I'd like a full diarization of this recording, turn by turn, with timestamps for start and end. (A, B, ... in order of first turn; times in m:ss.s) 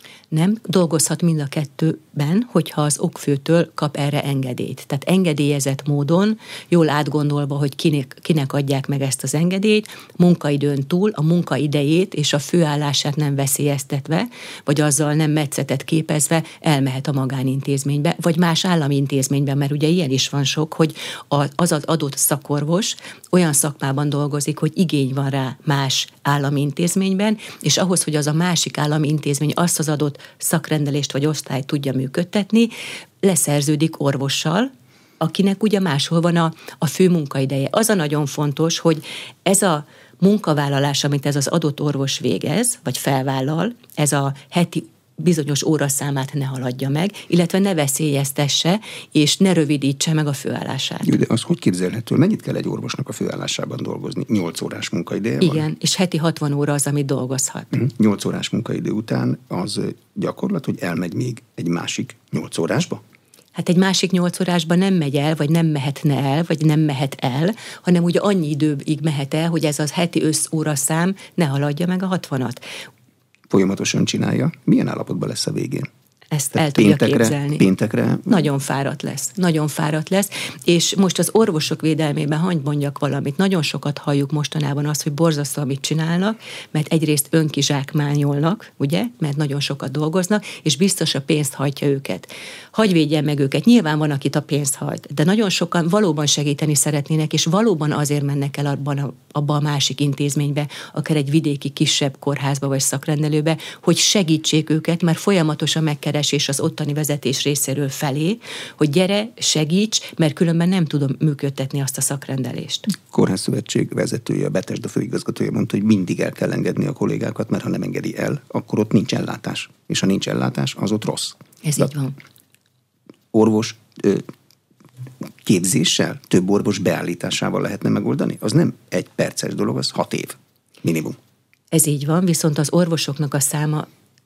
0:00.3-0:32.7 A
0:33.2-0:51.1 A
0:51.0-0:55.6 B
0:55.4-0:57.7 A
0:57.7-1:03.0 B
1:03.5-1:12.6 A
1:13.5-1:15.9 B
1:16.3-1:17.6 A
1:16.5-1:18.4 B
1:18.3-1:52.9 A
1:52.9-2:01.9 B
2:01.6-2:02.1 A
2:03.3-2:04.3 B
2:05.4-2:11.2 B
2:11.7-2:13.9 A